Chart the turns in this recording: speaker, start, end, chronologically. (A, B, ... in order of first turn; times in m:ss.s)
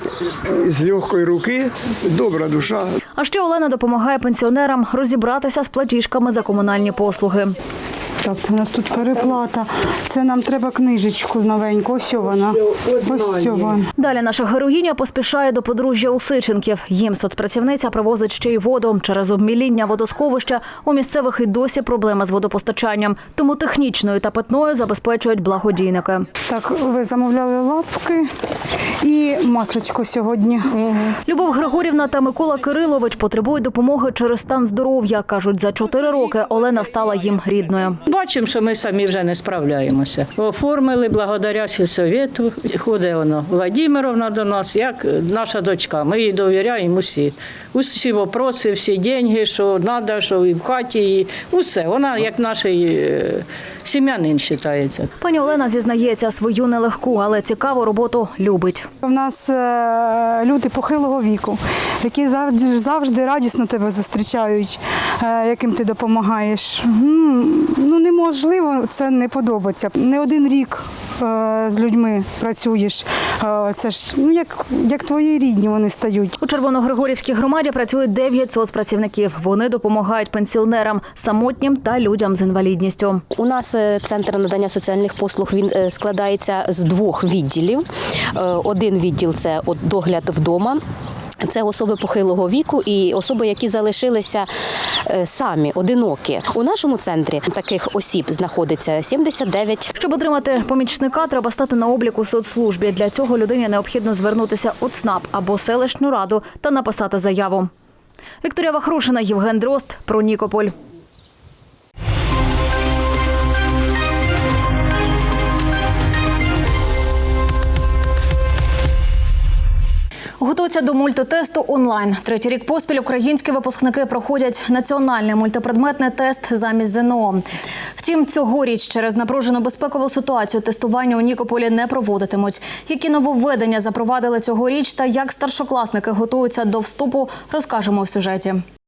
0:00.5-0:03.0 A
0:03.2-0:07.5 B
0:08.2-0:13.9 C
0:14.0-0:26.3 B
0:26.5-0:28.3 C
0:29.0-0:30.8 C
0:31.3-0:38.0 B
0:38.1-0:47.2 D
0:47.7-0:55.1 D
0:55.2-0:58.9 B
0:59.0-1:16.4 C
1:16.4-1:23.2 B
1:23.4-1:30.8 E
1:31.4-1:34.5 E
1:35.1-1:39.9 E
1:40.0-1:47.7 B
1:48.4-1:50.7 B
2:00.4-2:07.4 B
2:08.0-2:18.6 B